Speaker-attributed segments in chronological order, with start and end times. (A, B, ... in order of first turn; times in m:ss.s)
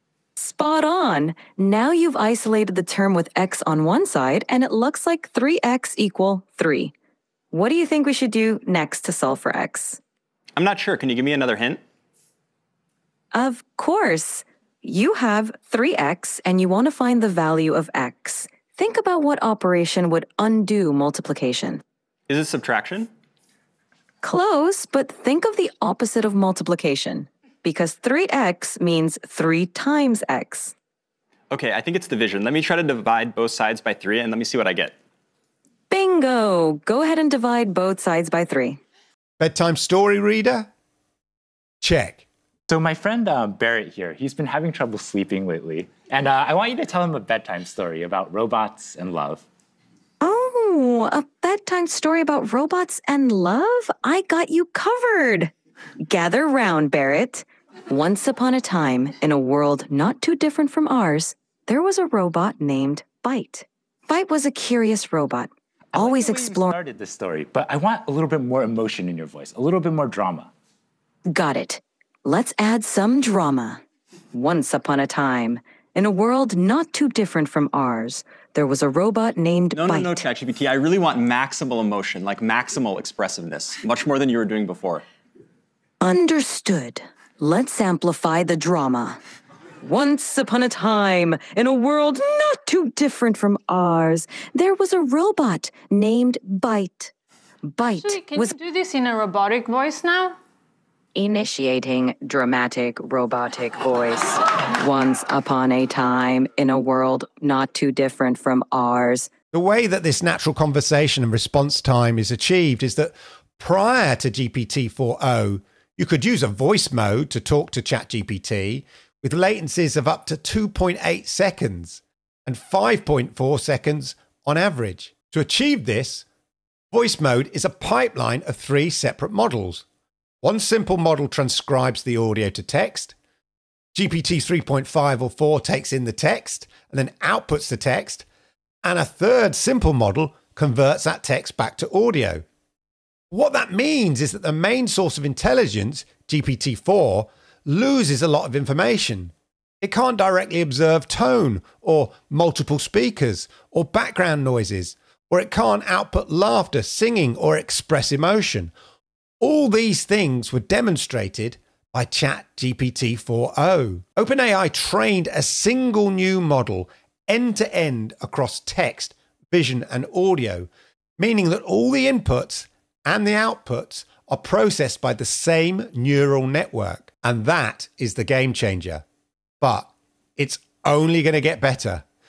0:00.4-0:06.9 A
0:07.5-0:10.0 A
0:10.6-0:11.8 B
0:13.3-0:21.8 A
0:22.3-0:23.1 B
0:24.2-0:30.7 A
0:31.5-0:35.0 B
0:35.9-0:38.8 A
0:39.4-0:40.7 C
0:41.8-0:42.3 C
0:42.7-0:49.5 D
0:50.2-0:55.5 A
0:56.0-1:06.8 A
1:05.9-1:10.5 D
1:11.3-1:13.8 A
1:14.3-1:20.2 A
1:19.7-1:25.0 B
1:26.0-1:29.2 A
1:29.8-1:37.1 A
1:37.8-1:38.6 A
1:38.0-1:40.4 E
1:41.2-1:49.3 A
1:49.5-2:06.3 C
2:06.9-2:09.8 C
2:10.4-2:13.2 C
2:13.9-2:18.3 C
2:18.8-2:22.4 C
2:23.3-2:38.7 C
2:39.4-2:59.0 C
2:59.6-3:02.0 C